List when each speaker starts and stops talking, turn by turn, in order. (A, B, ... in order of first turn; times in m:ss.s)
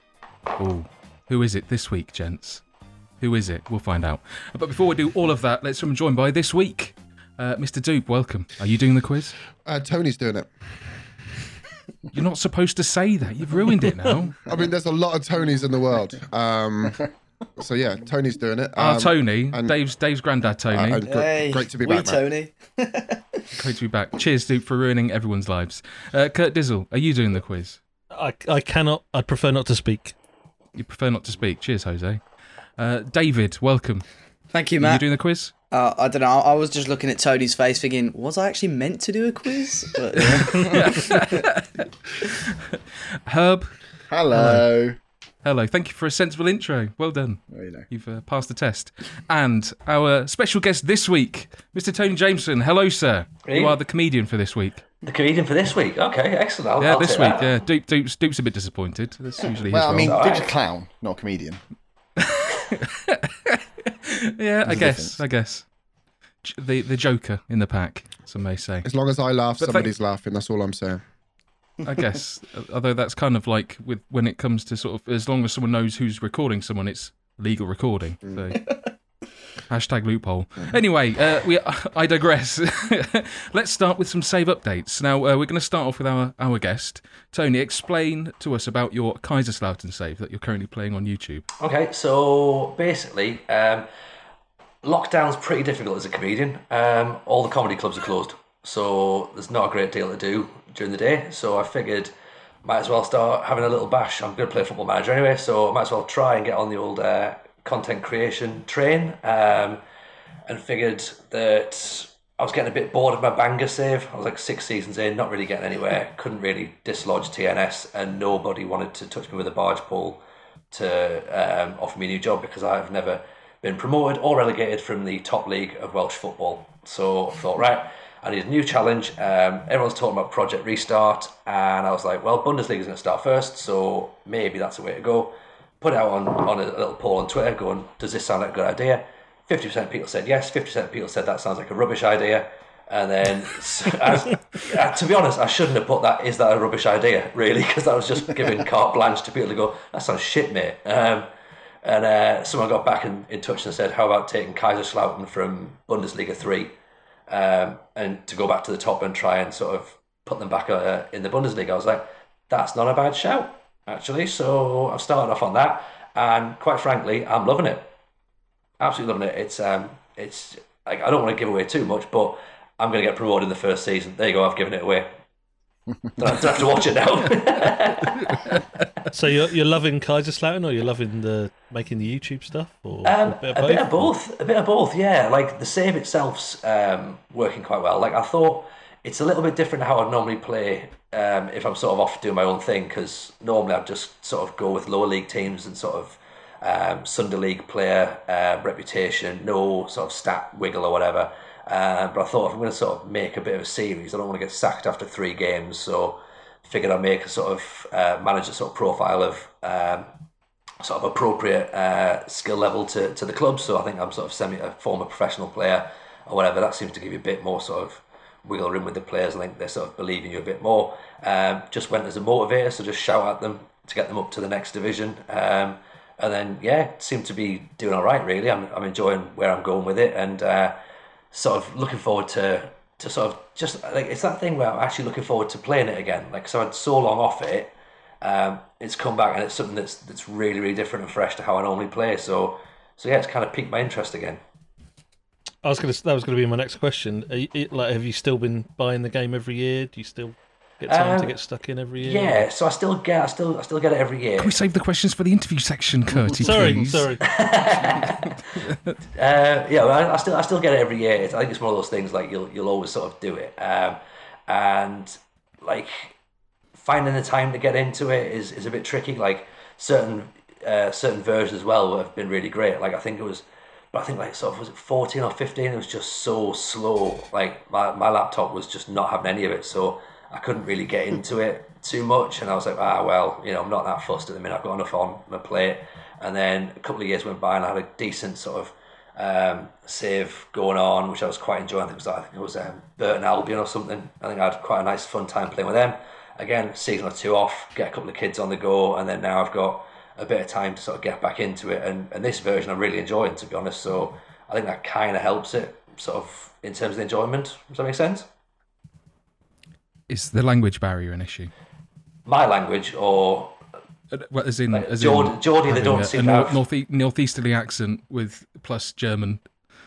0:00.6-0:02.6 A
0:03.2-0:09.4 A
0:09.6-0:10.5 B
0:12.1-0:14.4 A
0:14.5-0:17.0 B
0:17.6-0:19.8 B
0:18.8-0:21.0 A
0:20.7-0:22.2 B
0:21.1-0:23.4 C
0:23.5-0:27.8 A
0:28.1-0:30.2 D
0:30.8-0:32.2 A
0:32.8-0:34.0 A
0:34.5-0:35.0 C
0:34.8-0:35.5 A
0:35.7-0:41.1 C
0:40.2-0:44.7 A
0:44.1-0:45.0 E
0:45.4-0:54.8 A
0:47.5-0:47.9 E
0:53.4-0:53.8 F
0:55.0-0:57.5 F
0:56.8-1:00.3 A
0:59.7-1:01.6 E
1:00.0-1:00.5 F
1:02.2-1:05.7 A
1:04.7-1:05.2 E
1:06.4-1:08.9 A
1:08.8-1:11.0 B
1:09.6-1:09.9 A
1:11.8-1:18.7 A
1:19.7-1:31.4 A
1:31.6-1:33.9 F
1:34.8-1:42.1 F
1:42.6-1:49.8 F
1:50.5-2:00.2 F
2:00.7-2:31.3 F
2:31.8-2:36.7 F
2:37.3-2:47.9 F
2:48.8-2:55.1 F
2:56.2-2:58.4 F
2:58.3-2:58.6 A
2:59.1-3:04.1 D
3:03.0-3:30.1 F
3:30.8-3:50.8 F
3:51.3-4:04.4 F
4:05.6-4:12.4 D
4:10.9-4:11.3 F
4:12.0-4:14.6 F
4:14.4-4:17.0 A
4:16.2-4:16.9 E
4:16.4-4:17.3 D
4:17.2-4:18.6 F
4:17.9-4:19.0 A
4:19.2-4:26.2 F
4:26.8-5:08.3 F
5:10.1-5:11.5 A
5:12.3-5:13.6 F
5:14.1-5:19.5 A
5:14.7-5:16.6 F